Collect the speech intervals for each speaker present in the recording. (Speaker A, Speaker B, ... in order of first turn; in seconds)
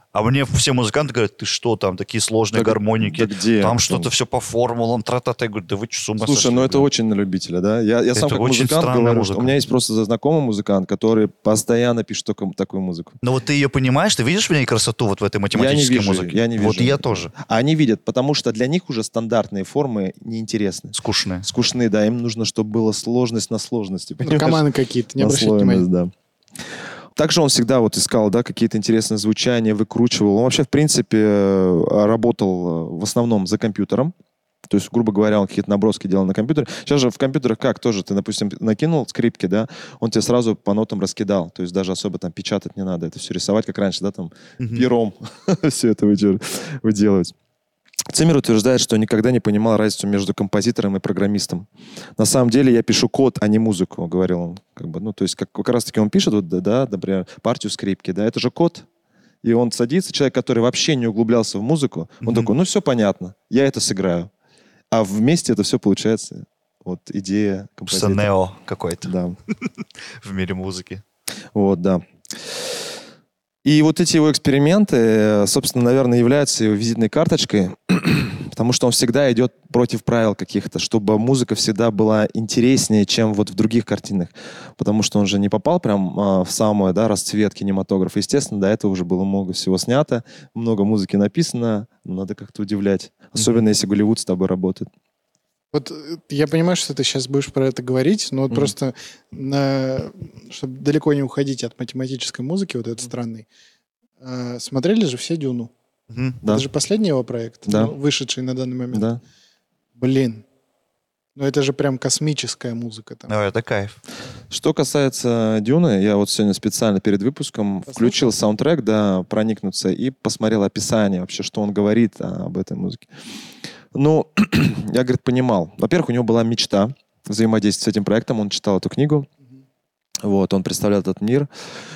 Speaker A: 0.1-6.9, 8.1-9.5, 13.2-17.3, 20.9-21.5, 44.6-44.9, 62.2-62.5, 67.9-69.1, 70.2-71.0, 106.1-106.4, 113.3-114.0
Speaker B: 2.5-4.1, 6.2-13.2, 15.5-24.6, 25.2-26.1, 27.1-34.1, 34.7-47.3, 48.1-51.7, 52.2-58.9, 59.4-64.3, 64.9-68.3, 69.0-69.3, 71.5-72.6, 73.6-94.9, 107.7-107.9, 108.9-109.2, 114.5-123.0, 123.9-129.3, 130.2-131.5
Speaker C: 24.2-25.9, 95.7-103.5, 104.2-105.7, 106.4-109.1, 110.0-110.4, 111.3-113.3, 117.9-118.3